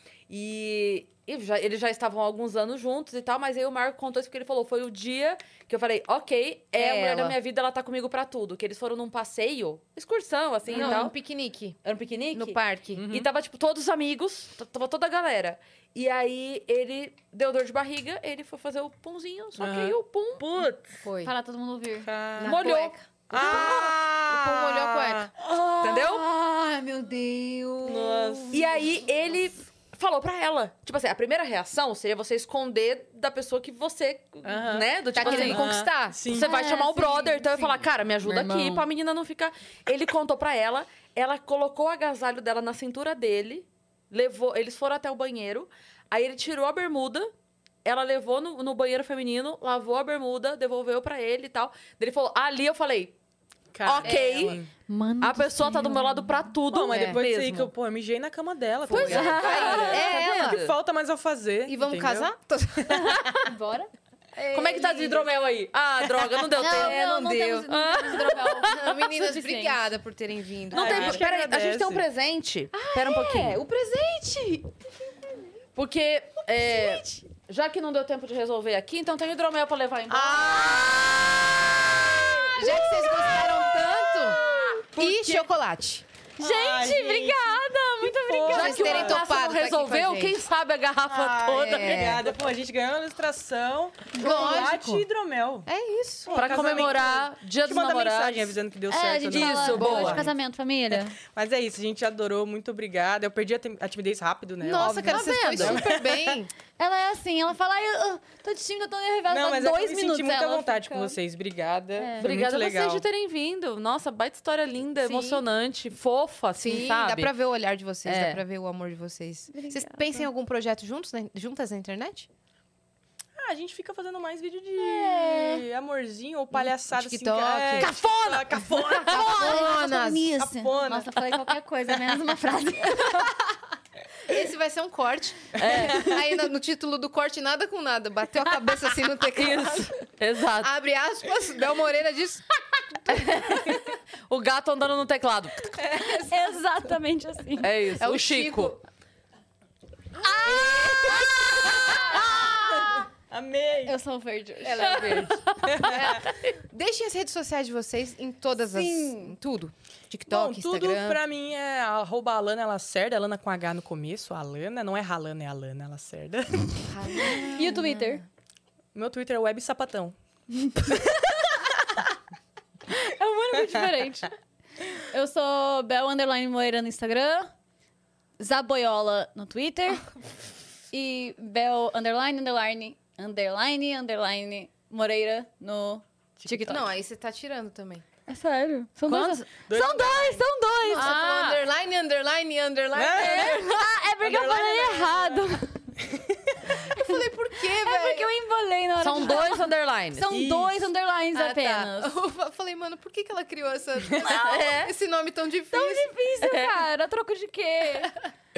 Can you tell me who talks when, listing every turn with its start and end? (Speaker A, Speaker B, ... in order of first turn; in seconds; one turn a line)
Speaker A: 0.3-11.2
Speaker B: 6.8-7.4
Speaker B: 10.7-11.8
Speaker C: 10.7-11.1
Speaker A: 11.8-21.0
Speaker B: 12.3-13.1
Speaker D: 12.9-13.3
Speaker D: 19.6-20.0
Speaker B: 21.0-21.3
Speaker C: 21.2-22.1
Speaker D: 22.0-22.6
Speaker B: 22.4-25.3
Speaker A: 22.4-23.9
Speaker D: 23.3-25.3
Speaker C: 25.4-28.9
Speaker A: 25.8-26.2
Speaker A: 27.9-35.7
Speaker D: 34.4-36.5
Speaker B: 35.1-36.2
Speaker C: 35.2-35.6
Speaker C: 36.3-38.9
Speaker A: 36.3-47.3
Speaker A: 47.9-53.1
Speaker D: 53.7-54.7
Speaker A: 53.9-54.6
Speaker B: 54.0-54.6
Speaker C: 54.9-56.5
Speaker A: 55.2-57.7
Speaker D: 56.7-62.3
Speaker B: 56.9-57.2
Speaker B: 58.9-60.6
Speaker A: 58.9-60.7
Speaker C: 58.9-60.3
Speaker B: 61.7-63.3
Speaker D: 62.9-63.2
Speaker C: 63.4-65.3
Speaker A: 64.5-67.0
Speaker B: 66.6-67.7
Speaker C: 66.6-69.8
Speaker A: 67.7-68.9
Speaker B: 68.6-71.2
Speaker D: 70.7-72.0
Speaker A: 70.7-73.6
Speaker B: 72.8-75.3
Speaker A: 75.8-81.0
Speaker D: 80.1-85.3
Speaker B: 82.4-84.4
Speaker B: 85.0-86.0
Speaker A: 85.0-85.5
Speaker C: 86.4-89.1
Speaker D: 86.4-89.2
Speaker A: 88.5-92.2
Speaker B: 88.5-90.3
Speaker D: 91.1-95.7
Speaker B: 91.6-92.2
Speaker B: 94.2-95.1
Speaker C: 94.2-94.6
Speaker B: 95.7-97.2
Speaker D: 96.3-100.3
Speaker A: 96.3-98.5
Speaker C: 98.9-101.2
Speaker A: 99.3-100.3
Speaker D: 101.2-106.4
Speaker B: 104.6-106.5
Speaker C: 104.7-105.9
Speaker C: 106.8-111.2
Speaker D: 109.3-113.1
Speaker C: 112.0-112.3
Speaker A: 112.2-117.3
Speaker B: 115.0-115.4
Speaker B: 116.6-122.3
Speaker C: 118.1-118.4
Speaker C: 119.5-120.3
Speaker D: 123.4-129.7
Speaker C: 124.8-125.6
Speaker B: 126.5-127.9
Speaker A: 127.8-129.7
Speaker B: 128.8-130.3
Speaker C: 129.2-133.3
Speaker D: 130.4-131.2
Speaker B: 134.3-140.0
Speaker A: 135.6-136.2
Speaker A: 139.3-140.7
Speaker B: 140.6-142.4
Speaker B: 143.1-143.8
Speaker A: 143.1-145.8
Speaker B: 145.8-146.6
Speaker C: 146.2-147.7
Speaker A: 147.6-148.8
Speaker B: 148.0-148.8
Speaker C: 150.2-152.9
Speaker D: 150.3-154.0
Speaker C: 153.9-155.4
Speaker B: 154.7-155.3
Speaker A: 154.7-156.6
Speaker D: 155.6-156.2
Speaker B: 155.9-161.2
Speaker C: 158.6-159.4
Speaker D: 160.3-167.4
Speaker B: 166.8-168.2
Speaker C: 167.2-168.2
Speaker D: 168.9-170.2
Speaker C: 170.6-171.2
Speaker D: 170.8-171.7
Speaker C: 172.9-174.3
Speaker C: 175.0-177.5
Speaker C: 178.4-180.1
Speaker C: 180.9-186.8
Speaker D: 186.4-186.9
Speaker B: 186.7-188.0
Speaker C: 188.3-191.2
Speaker A: 189.1-189.4
Speaker D: 189.7-190.4
Speaker B: 190.9-193.7
Speaker A: 190.9-191.6
Speaker D: 192.9-196.7
Speaker C: 193.2-195.9
Speaker B: 196.7-198.3
Speaker C: 196.9-202.2
Speaker A: 199.0-200.3
Speaker D: 200.3-200.9
Speaker B: 201.3-206.3
Speaker A: 204.2-204.9
Speaker C: 205.7-208.2
Speaker A: 206.4-206.7